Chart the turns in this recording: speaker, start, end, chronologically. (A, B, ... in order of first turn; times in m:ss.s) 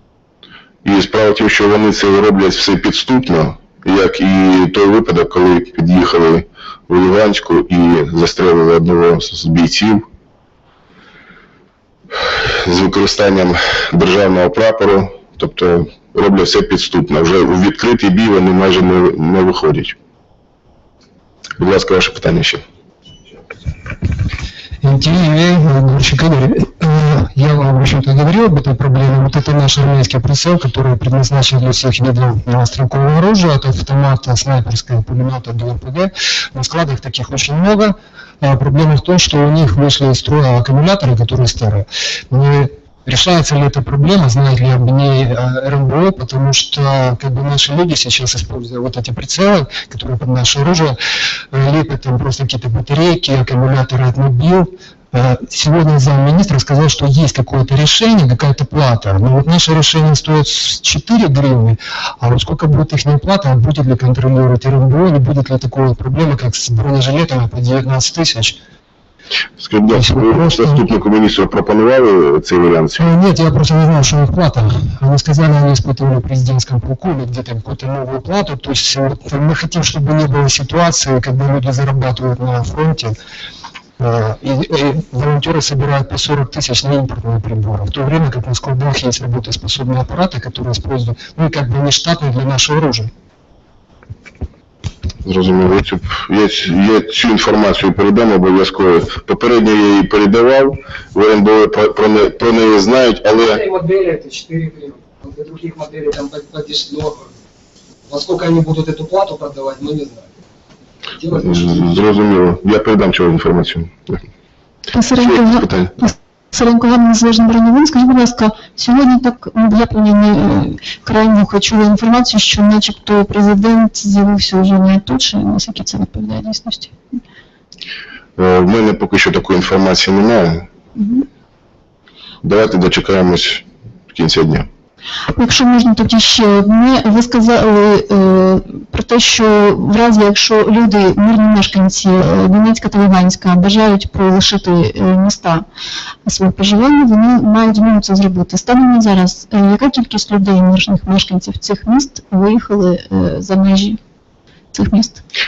0:00.8-0:10.0 A
0:12.2-0:20.0 A
0:21.6-0:22.6 A
0:24.8-0:51.0 B
0:51.5-1:08.6 B
1:09.6-1:13.1 A
1:09.9-1:10.8 B
1:13.0-1:23.2 B
1:24.0-1:33.1 B
1:35.2-1:43.6 A
1:43.4-1:47.4 C
1:48.1-1:50.3 C
1:51.2-1:51.6 C
1:51.3-1:54.2 A
1:54.9-2:06.9 D
1:55.2-1:55.9 A
2:08.4-2:10.7 A
2:11.0-2:11.2 D
2:12.4-2:14.7 A
2:15.3-2:25.6 D
2:26.3-2:34.0 D
2:34.7-2:35.2 D